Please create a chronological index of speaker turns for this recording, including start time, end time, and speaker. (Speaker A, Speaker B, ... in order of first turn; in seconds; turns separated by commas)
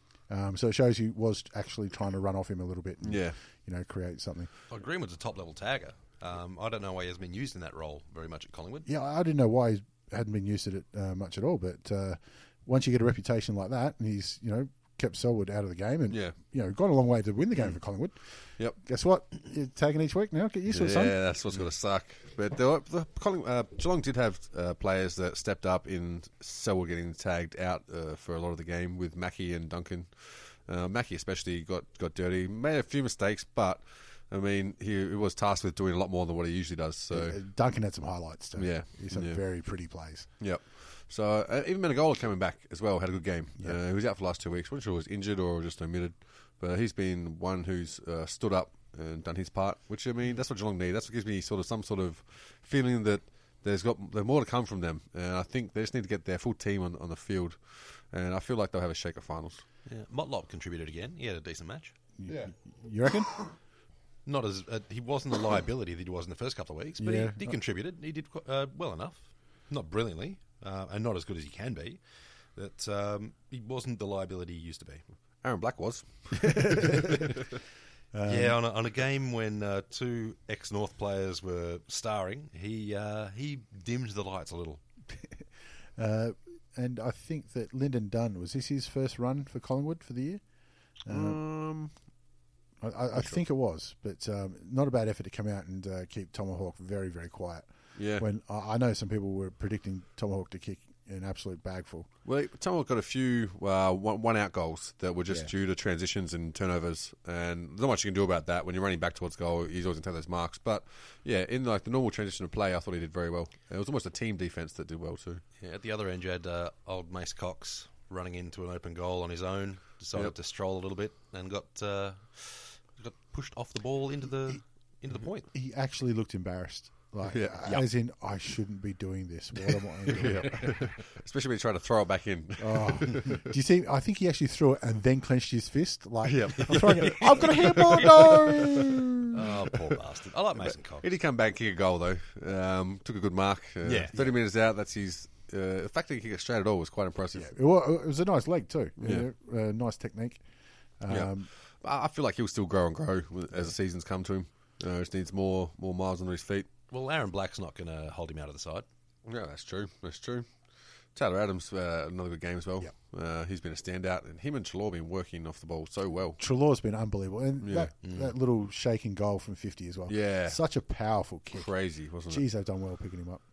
Speaker A: 0.3-4.5, Speaker B: 3.0-3.4, Speaker C: 4.7-8.9, Speaker A: 8.9-21.2, Speaker B: 16.1-16.4, Speaker B: 20.7-37.4, Speaker A: 37.1-40.3, Speaker B: 38.6-39.4, Speaker B: 40.4-59.6, Speaker C: 59.9-62.0, Speaker A: 62.2-63.3, Speaker C: 64.3-72.0, Speaker A: 67.0-67.5, Speaker C: 72.5-75.0, Speaker B: 75.4-77.2, Speaker A: 76.4-77.2, Speaker A: 78.1-78.6, Speaker C: 78.3-84.8, Speaker A: 85.1-90.4, Speaker A: 91.0-91.4, Speaker B: 91.1-91.9, Speaker A: 92.8-102.1, Speaker B: 98.0-98.3, Speaker B: 102.2-115.4, Speaker C: 115.6-125.5, Speaker A: 125.5-130.9, Speaker B: 127.3-127.8, Speaker B: 130.1-133.5, Speaker A: 132.6-139.4, Speaker B: 136.2-138.8, Speaker C: 139.3-141.1, Speaker B: 141.0-147.5, Speaker C: 143.8-144.1, Speaker A: 147.3-150.4, Speaker B: 149.0-149.3, Speaker A: 151.0-151.5, Speaker B: 151.1-156.7, Speaker C: 156.9-158.9, Speaker B: 159.2-160.5, Speaker B: 161.2-166.4, Speaker A: 166.4-171.7, Speaker B: 167.6-167.9, Speaker C: 168.0-168.3, Speaker B: 170.1-170.6, Speaker B: 171.5-172.4, Speaker A: 172.3-173.4